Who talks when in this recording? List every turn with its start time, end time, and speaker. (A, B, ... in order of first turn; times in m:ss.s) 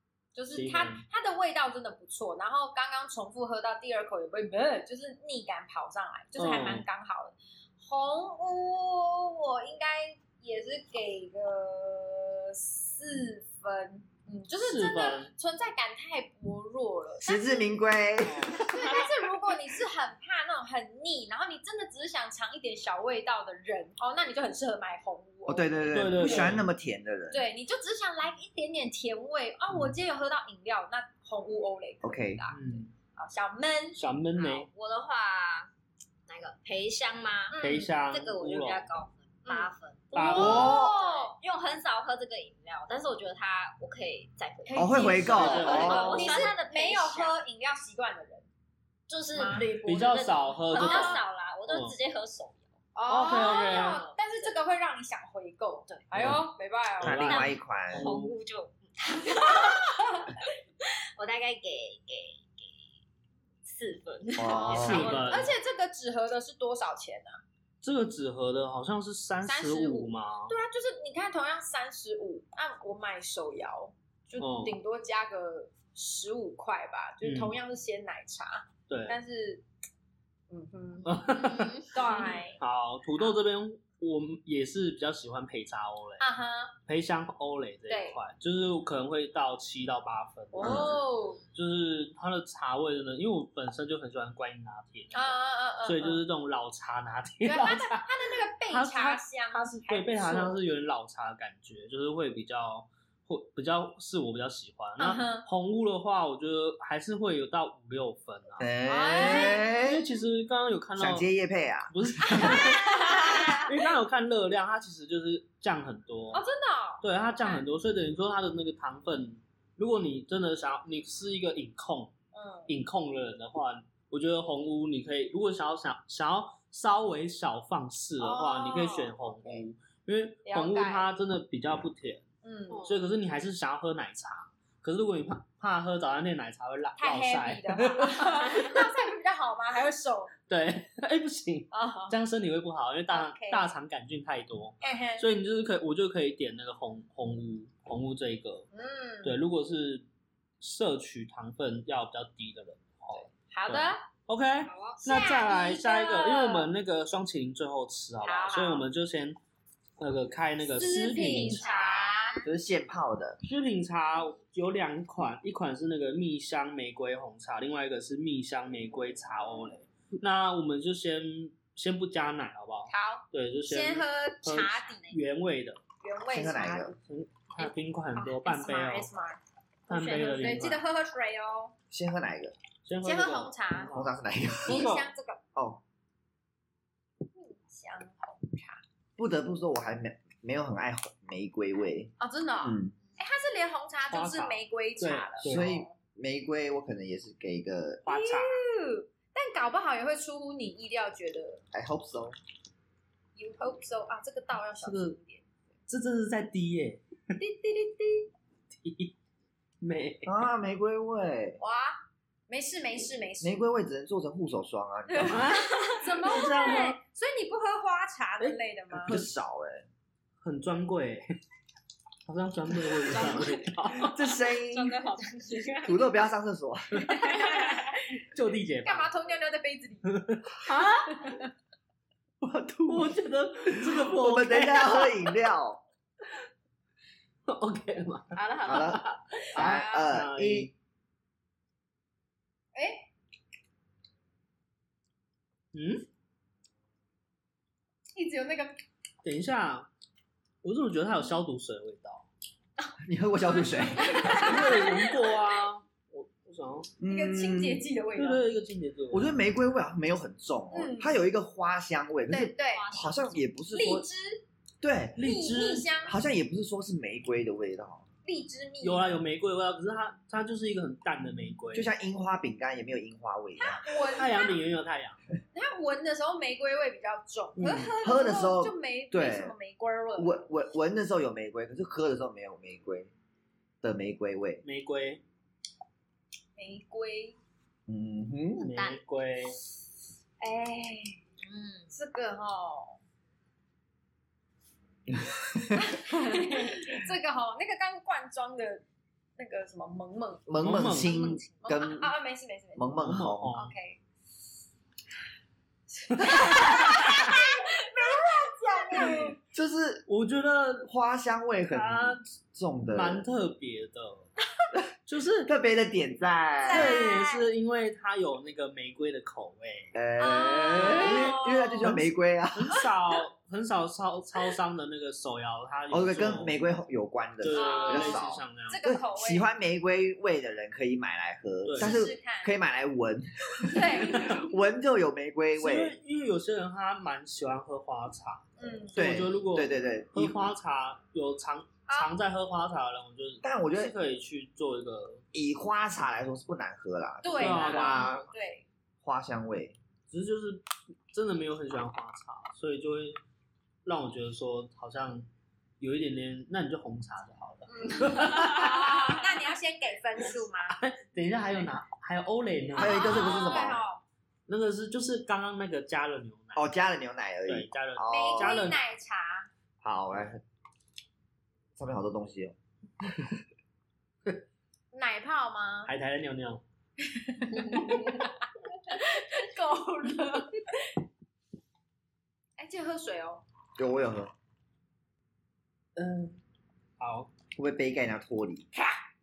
0:00.3-0:17.7 A
0:00.5-0:01.0 B
0:06.4-0:06.9 B
0:14.6-0:15.3 B
0:17.2-0:18.6 C
0:18.2-0:18.6 B
0:18.6-0:26.5 A
0:18.8-0:19.1 D
0:25.4-0:27.4 C
0:25.9-0:26.7 B
0:27.3-0:34.6 A
0:32.0-0:32.4 C
0:32.5-0:32.9 B
0:34.0-0:34.7 B
0:34.6-0:35.7 D
0:36.3-0:47.4 D
0:37.5-0:37.9 A
0:37.6-0:38.9 B
0:39.4-0:41.4 A
0:40.1-0:40.8 B
0:40.3-0:40.9 C
0:44.6-0:48.5 A
0:44.8-0:46.2 C
0:45.2-0:46.4 B
0:49.1-0:54.6 D
0:49.3-0:49.8 A
0:49.8-0:52.0 B
0:50.7-0:51.2 A
0:53.0-0:57.4 A
0:53.1-0:54.0 B
0:55.9-0:56.3 D
0:57.0-0:58.1 C
0:57.0-0:58.3 B
0:57.1-1:02.9 D
0:59.6-1:00.2 A
1:03.6-1:05.5 D
1:04.4-1:05.1 C
1:04.4-1:07.4 A
1:04.7-1:05.5 B
1:07.8-1:10.5 B
1:09.4-1:19.6 A
1:14.4-1:14.8 B
1:17.2-1:17.6 B
1:18.9-1:19.2 B
1:20.5-1:22.6 A
1:21.0-1:21.9 B
1:21.3-1:22.4 D
1:22.6-1:26.2 B
1:26.2-1:26.7 A
1:26.8-1:31.0 B
1:27.9-1:28.2 A
1:30.5-1:31.4 A
1:30.6-1:30.9 C
1:31.5-1:38.0 B
1:35.1-1:36.2 A
1:37.4-1:40.6 A
1:38.7-1:51.3 B
1:45.0-1:45.5 A
1:48.6-1:50.0 C
1:48.8-1:49.7 A
1:51.0-1:52.6 C
1:51.9-1:56.4 B
1:52.4-1:53.7 A
1:56.3-1:57.6 A
1:57.0-2:02.1 B
2:02.3-2:02.7 A
2:02.7-2:12.2 B
2:08.2-2:09.6 A
2:10.4-2:11.1 A
2:12.4-2:12.9 A
2:12.7-2:12.9 D
2:12.8-2:18.9 B
2:17.0-2:20.3 A
2:20.5-2:28.7 B
2:21.7-2:22.2 A
2:23.1-2:23.6 A
2:24.8-2:25.3 A
2:28.7-2:29.4 A
2:29.2-2:30.0 B
2:30.6-2:39.4 B
2:33.1-2:34.0 A
2:34.7-2:35.0 D
2:35.0-2:36.7 A
2:38.2-2:38.9 A
2:40.0-2:42.1 B
2:40.8-2:42.4 A
2:41.1-2:42.5 D
2:42.4-2:43.4 C
2:43.4-2:55.8 B
2:52.9-2:55.2 A
2:56.0-2:57.0 A
2:56.3-2:57.0 C
2:57.0-2:59.1 B
2:57.6-2:59.4 A
2:59.9-3:00.8 B
2:59.9-3:00.6 D
3:00.1-3:01.7 A
3:01.9-3:02.5 C
3:02.8-3:05.1 B
3:03.0-3:03.9 A
3:03.8-3:04.9 C
3:04.6-3:05.4 A
3:05.6-3:05.8 C
3:07.3-3:08.8 A
3:09.2-3:12.9 C
3:12.2-3:15.9 A
3:14.1-3:15.8 B
3:15.4-3:18.0 C
3:18.0-3:18.6 B
3:18.1-3:21.6 A
3:21.7-3:22.4 C
3:23.4-3:25.4 A
3:24.8-3:25.2 B
3:25.9-3:27.0 B
3:27.4-3:28.3 A
3:28.8-3:29.1 B
3:29.8-3:30.4 B
3:30.2-3:31.6 C
3:31.6-3:33.6 A
3:33.4-3:35.6 C
3:35.1-3:39.2 A
3:35.2-3:37.0 B
3:35.6-3:36.5 D
3:38.4-3:39.3 B
3:39.0-3:39.9 C
3:40.4-3:41.4 B
3:42.2-3:44.2 B
3:43.1-3:43.7 D
3:44.0-3:45.0 C
3:44.4-3:46.1 D
3:45.8-3:47.2 C
3:47.2-3:48.2 A
3:47.3-3:47.8 D
3:48.3-3:49.1 B
3:48.8-3:50.6 A
3:50.0-3:51.4 B
3:52.4-3:53.1 C
3:52.8-3:55.3 B
3:53.7-3:55.8 C
3:57.5-3:59.0 B
3:58.3-3:59.4 D
3:58.6-3:59.0 C
3:59.5-4:00.7 B
3:59.5-4:00.7 C
3:59.6-4:00.1 A
4:02.7-4:03.1 A
4:05.7-4:06.0 B
4:08.1-4:08.8 A
4:09.2-4:09.9 B
4:10.6-4:12.3 B
4:13.0-4:14.6 C
4:14.0-4:14.4 D
4:14.2-4:14.8 A
4:14.4-4:16.9 B
4:17.0-4:17.8 C
4:17.0-4:18.4 A
4:18.1-4:19.4 B
4:19.1-4:24.0 C
4:20.7-4:21.2 A
4:22.3-4:22.9 A
4:22.7-4:23.4 D
4:23.7-4:24.4 A
4:24.8-4:25.2 C
4:25.2-4:25.9 B
4:25.2-4:26.2 A
4:26.0-4:28.0 C
4:28.2-4:29.2 A
4:28.8-4:31.9 B
4:31.7-4:34.1 C
4:33.6-4:34.6 A
4:34.1-4:35.2 B
4:35.5-4:40.4 A
4:37.6-4:37.9 B
4:37.9-4:39.5 C
4:40.2-4:43.1 C
4:43.8-4:44.6 C
4:44.6-4:45.2 B
4:46.6-4:47.4 A
4:47.9-4:48.6 C
4:48.6-4:49.0 D
4:48.6-4:49.6 B
4:50.4-4:51.2 A
4:51.4-4:51.9 D
4:51.9-4:53.0 A
4:55.1-4:56.4 C
4:55.8-4:58.8 A
4:59.4-5:00.5 A
5:00.5-5:02.2 C
5:00.6-5:01.2 B
5:01.0-5:01.5 D
5:01.6-5:03.0 A
5:02.7-5:03.5 C
5:03.0-5:03.8 B
5:03.5-5:04.0 A
5:05.9-5:09.4 A
5:06.2-5:07.4 B
5:06.3-5:07.1 C
5:09.4-5:10.0 C
5:10.1-5:10.9 B
5:10.8-5:13.2 C
5:11.7-5:12.3 B
5:12.9-5:14.3 B
5:15.0-5:15.5 B
5:15.4-5:17.0 C
5:16.6-5:17.5 A
5:16.7-5:19.9 B
5:19.9-5:22.8 C
5:20.2-5:21.9 A
5:20.7-5:26.6 B
5:25.9-5:35.9 C
5:27.4-5:28.8 B
5:27.5-5:29.4 A
5:31.6-5:32.0 B
5:31.8-5:32.5 A
5:33.6-5:34.6 A
5:34.1-5:34.4 B
5:35.6-5:45.2 B
5:38.6-5:39.2 A
5:38.9-5:40.5 C
5:41.9-5:42.1 A
5:43.4-5:43.9 C
5:45.3-5:48.3 C
5:47.2-5:48.6 A
5:47.3-5:48.2 B
5:49.0-5:49.8 C
5:50.1-5:53.2 B
5:53.8-5:55.3 B
5:55.8-5:59.1 B
5:57.7-6:00.8 A
5:58.1-5:59.0 D
6:00.7-6:03.4 B
6:02.8-6:03.8 C
6:02.8-6:04.0 A
6:04.5-6:06.7 B
6:06.5-6:08.6 C
6:07.5-6:08.8 B
6:08.1-6:09.5 A
6:09.8-6:10.4 C
6:11.8-6:12.5 C
6:14.9-6:15.9 A
6:15.8-6:16.6 B
6:17.0-6:20.9 A
6:22.6-6:23.4 A
6:23.8-6:24.3 C
6:26.0-6:26.4 B
6:27.0-6:27.3 B
6:27.5-6:28.7 C